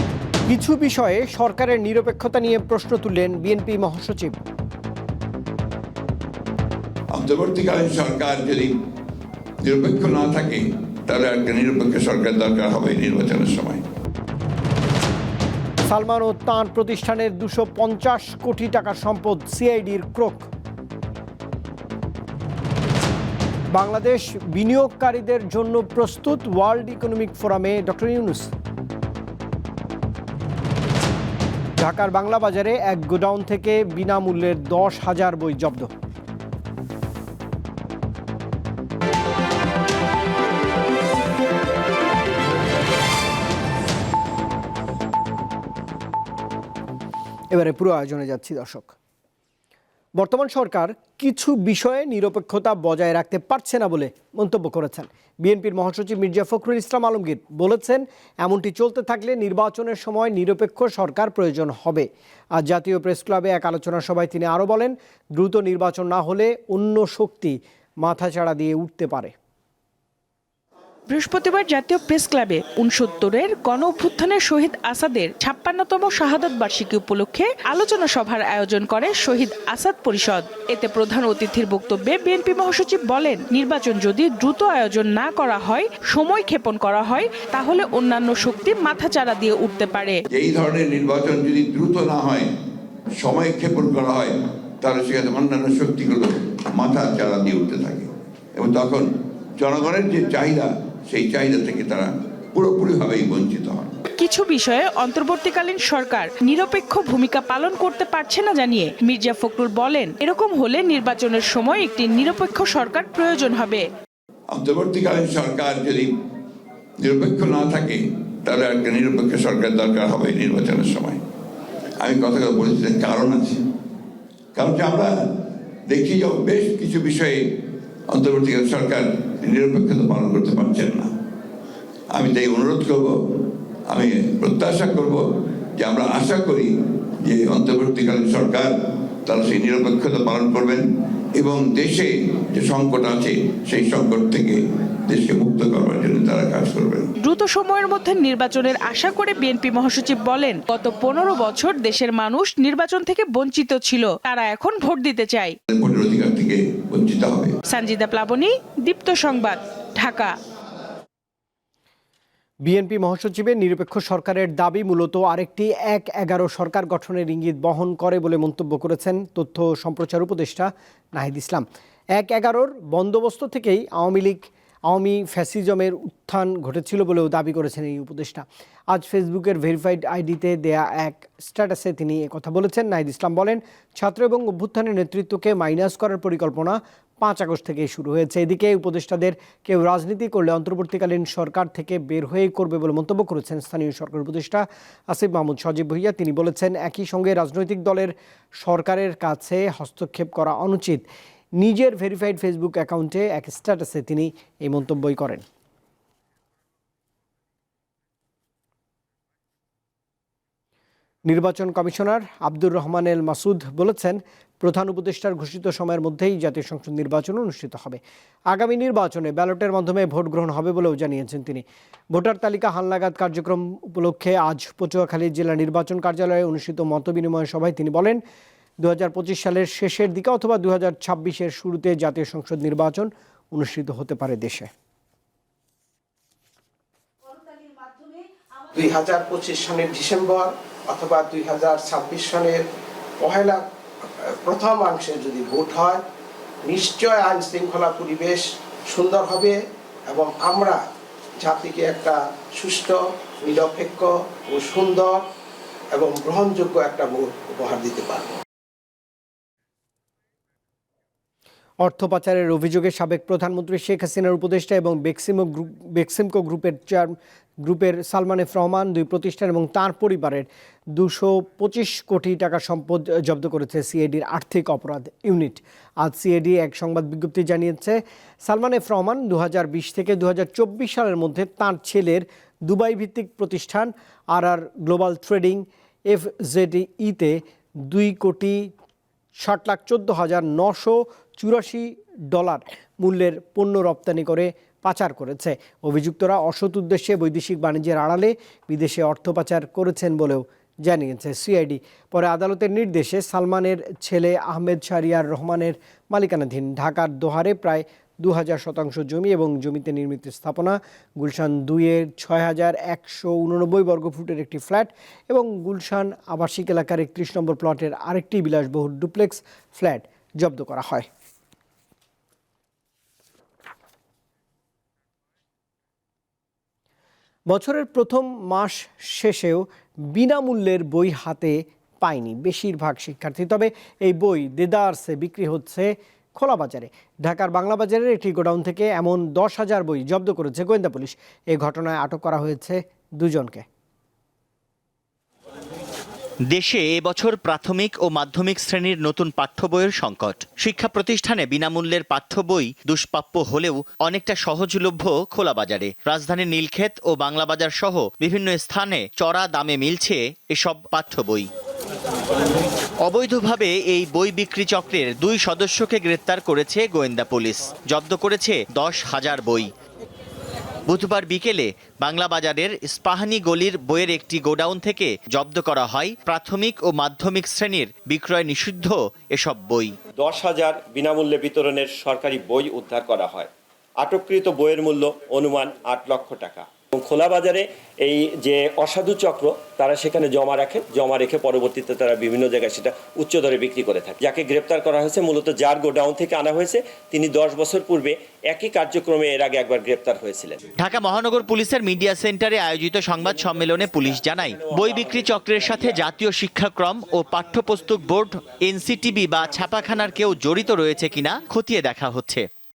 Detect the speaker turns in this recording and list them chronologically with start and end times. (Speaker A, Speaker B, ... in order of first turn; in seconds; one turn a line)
Speaker A: 0.5-4.3
Speaker B: 7.1-8.7
Speaker B: 9.6-13.8
Speaker A: 15.9-20.5
Speaker A: 23.7-28.5
Speaker A: 31.8-35.9
Speaker A: 47.5-48.9
Speaker A: 50.2-69.3
Speaker C: 71.1-90.2
Speaker B: 90.3-92.5
Speaker B: 93.2-103.9
Speaker C: 104.1-113.9
Speaker B: 114.5-116.1
Speaker B: 117.0-121.2
Speaker B: 122.0-123.6
Speaker B: 124.5-125.3
Speaker B: 125.9-127.5
Speaker B: 128.1-131.1
Speaker B: 132.1-136.7
Speaker B: 137.2-138.7
Speaker B: 139.2-140.8
Speaker B: 141.3-147.1
Speaker C: 147.2-155.6
Speaker B: 155.7-157.5
Speaker C: 157.7-160.3
Speaker A: 162.6-201.1
Speaker A: 201.6-205.4
Speaker A: 211.3-228.2
Speaker A: 228.8-234.7
Speaker D: 238.7-242.7
Speaker D: 243.2-246.0
Speaker D: 246.6-250.8
Speaker D: 251.4-255.2
Speaker D: 255.9-258.4
Speaker A: 261.8-288.7
Speaker A: 289.4-321.1
Speaker A: 327.5-343.6
Speaker E: 346.5-361.5
Speaker E: 363.0-369.7
Speaker E: 370.9-379.9
Speaker F: 380.2-400.6
Speaker E: 400.8-412.5